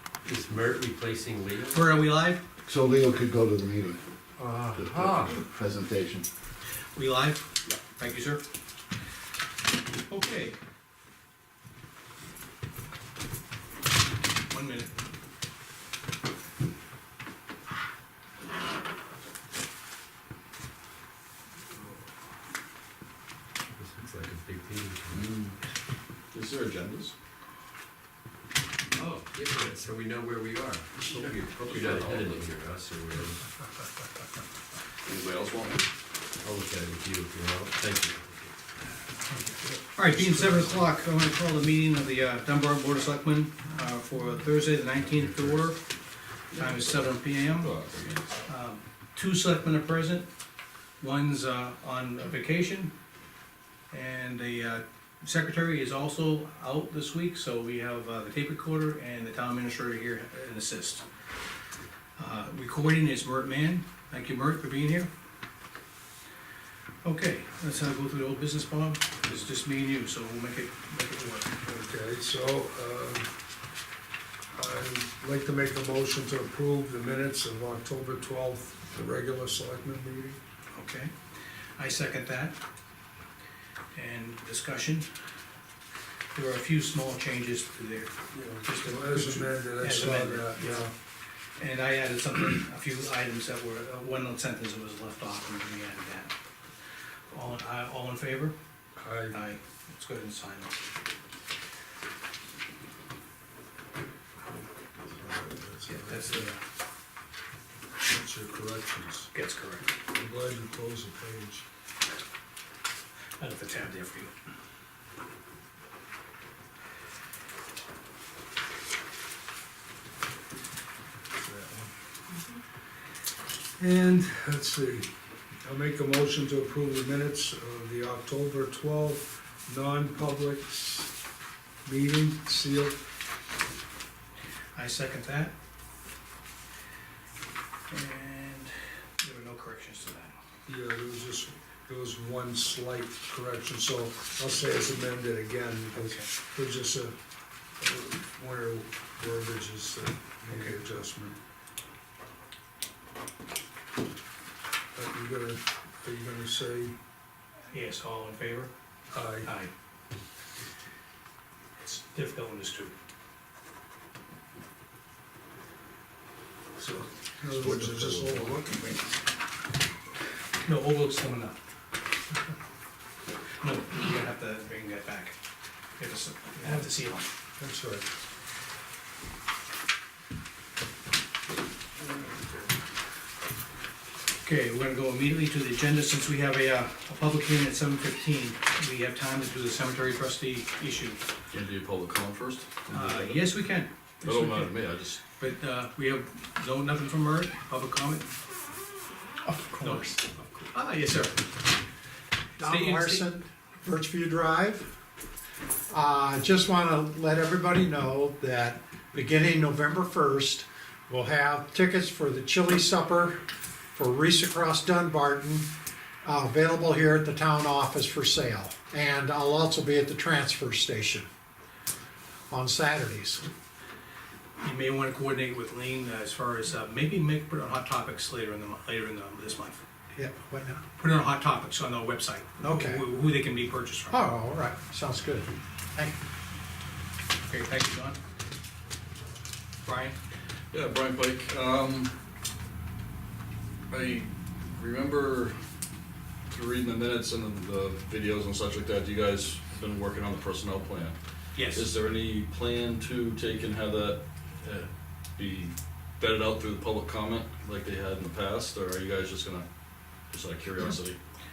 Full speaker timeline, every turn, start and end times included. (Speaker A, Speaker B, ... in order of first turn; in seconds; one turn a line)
Speaker A: 0.2-1.9
Speaker B: 1.7-2.4
Speaker C: 2.6-6.3
Speaker A: 4.8-5.3
Speaker B: 6.9-8.4
Speaker B: 10.1-10.6
Speaker B: 14.5-14.9
Speaker A: 23.8-25.2
Speaker D: 25.1-25.6
Speaker D: 26.3-27.1
Speaker A: 28.9-33.4
Speaker D: 31.1-32.5
Speaker D: 35.0-35.8
Speaker A: 36.4-38.5
Speaker B: 39.9-45.8
Speaker D: 46.5-48.2
Speaker B: 46.5-47.7
Speaker B: 48.5-50.3
Speaker B: 51.0-52.9
Speaker B: 53.9-61.0
Speaker B: 62.2-65.1
Speaker B: 67.0-71.5
Speaker E: 71.6-73.3
Speaker E: 74.5-80.4
Speaker B: 80.7-81.1
Speaker B: 81.8-82.6
Speaker B: 83.9-85.1
Speaker B: 86.3-90.8
Speaker E: 88.3-90.9
Speaker B: 91.6-96.3
Speaker B: 97.3-98.5
Speaker E: 99.0-99.4
Speaker B: 99.3-100.8
Speaker E: 105.1-106.5
Speaker B: 105.9-106.6
Speaker E: 108.0-109.3
Speaker B: 109.3-109.9
Speaker E: 110.1-111.6
Speaker B: 113.4-114.3
Speaker E: 121.3-121.9
Speaker E: 123.8-125.1
Speaker E: 125.6-131.1
Speaker E: 131.8-133.0
Speaker B: 134.7-135.5
Speaker B: 137.9-140.4
Speaker E: 140.7-147.2
Speaker B: 146.0-146.3
Speaker E: 147.8-151.4
Speaker E: 154.9-156.9
Speaker B: 157.7-158.7
Speaker E: 159.1-159.5
Speaker B: 159.4-159.7
Speaker B: 161.8-162.9
Speaker E: 166.8-169.0
Speaker B: 170.6-171.6
Speaker B: 173.6-175.3
Speaker B: 176.0-177.3
Speaker E: 177.6-178.1
Speaker B: 184.4-191.2
Speaker D: 191.5-193.5
Speaker B: 192.9-194.7
Speaker D: 194.2-195.2
Speaker B: 195.3-198.3
Speaker F: 199.4-200.4
Speaker B: 199.8-201.5
Speaker B: 202.6-203.3
Speaker F: 202.6-204.9
Speaker F: 205.9-213.4
Speaker F: 213.9-215.7
Speaker F: 216.2-221.3
Speaker F: 222.5-223.5
Speaker B: 224.6-229.8
Speaker F: 230.1-230.8
Speaker B: 231.0-234.2
Speaker F: 232.6-233.0
Speaker F: 234.1-236.1
Speaker B: 237.4-238.2
Speaker B: 239.8-240.2
Speaker D: 240.7-242.1
Speaker D: 243.9-245.6
Speaker D: 246.5-251.2
Speaker B: 251.5-251.9
Speaker D: 251.7-259.7
Speaker D: 260.3-261.2